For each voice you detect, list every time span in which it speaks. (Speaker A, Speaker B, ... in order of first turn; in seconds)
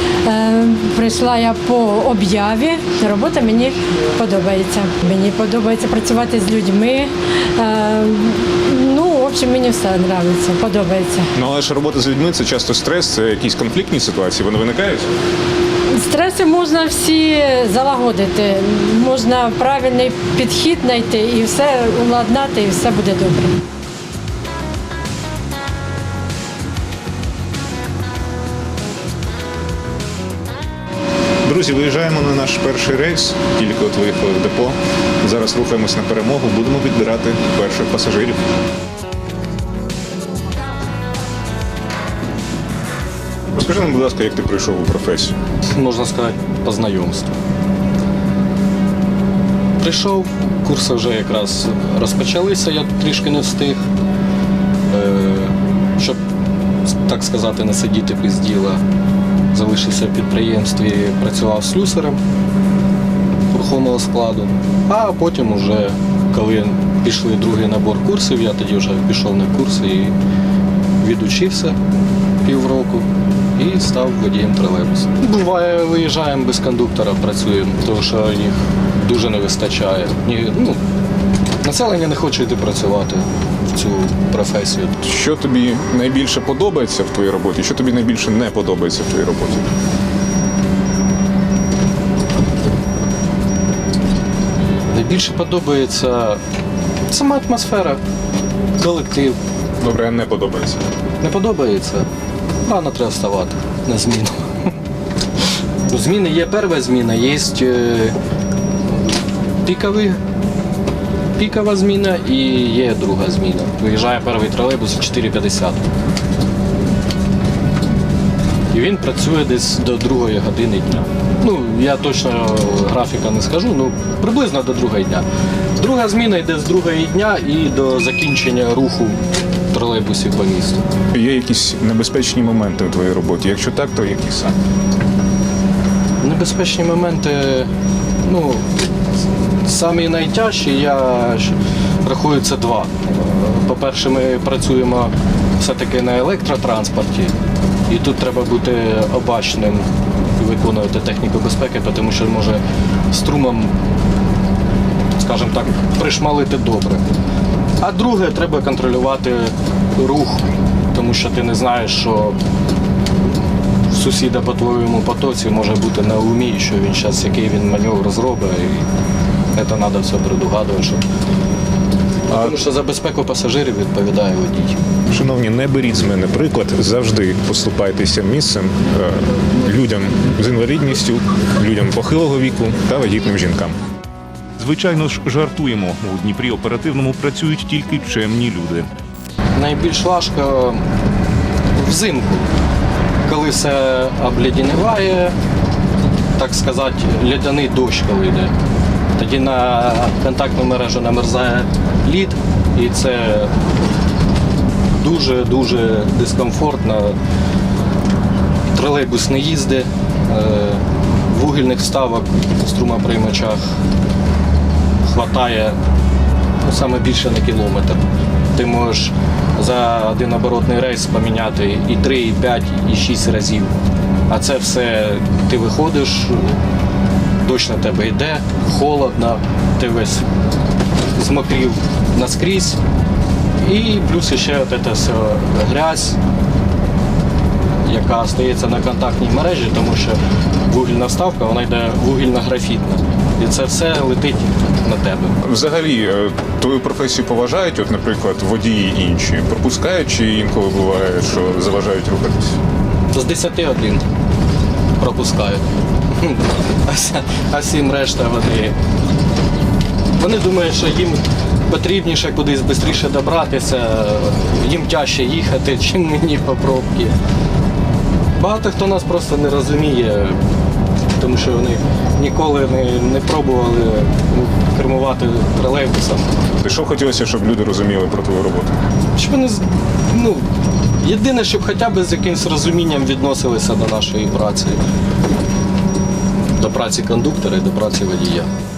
Speaker A: 0.2-11.3, 15.9-23.5
Speaker B: 11.3-15.1, 31.4-38.4, 43.5-45.4, 85.0-89.7, 99.8-100.8, 131.1-134.6, 175.1-183.8, 245.4-252.6, 276.6-278.8
Speaker C: 45.7-47.3, 49.8-53.8, 54.9-56.2, 56.9-58.8, 59.5-62.2, 63.5-70.2, 71.0-71.8, 72.4-80.8, 81.6-85.0, 94.9-96.4, 97.1-98.0, 98.8-99.4, 101.2-102.1, 102.6-104.7, 105.9-108.2, 109.6-110.2, 111.4-115.9, 118.7-130.8, 136.2-137.7, 138.2-138.7, 139.6-147.3, 147.9-153.7, 155.2-157.1, 157.8-162.4, 163.9-168.9, 169.5-171.0, 172.3-174.8, 189.6-190.8, 191.7-192.5, 193.2-195.3, 196.4-198.5, 199.2-203.5, 204.9-207.2, 208.7-213.6, 215.0-215.8, 216.6-223.8, 224.3-226.6, 227.4-230.3, 231.1-232.8, 233.6-236.2, 237.8-245.4, 253.1-254.0, 255.0-258.8, 260.2-267.2, 268.4-270.4, 271.1-276.3, 279.1-280.5, 281.0-284.8, 286.6-288.5
Speaker D: 184.6-188.9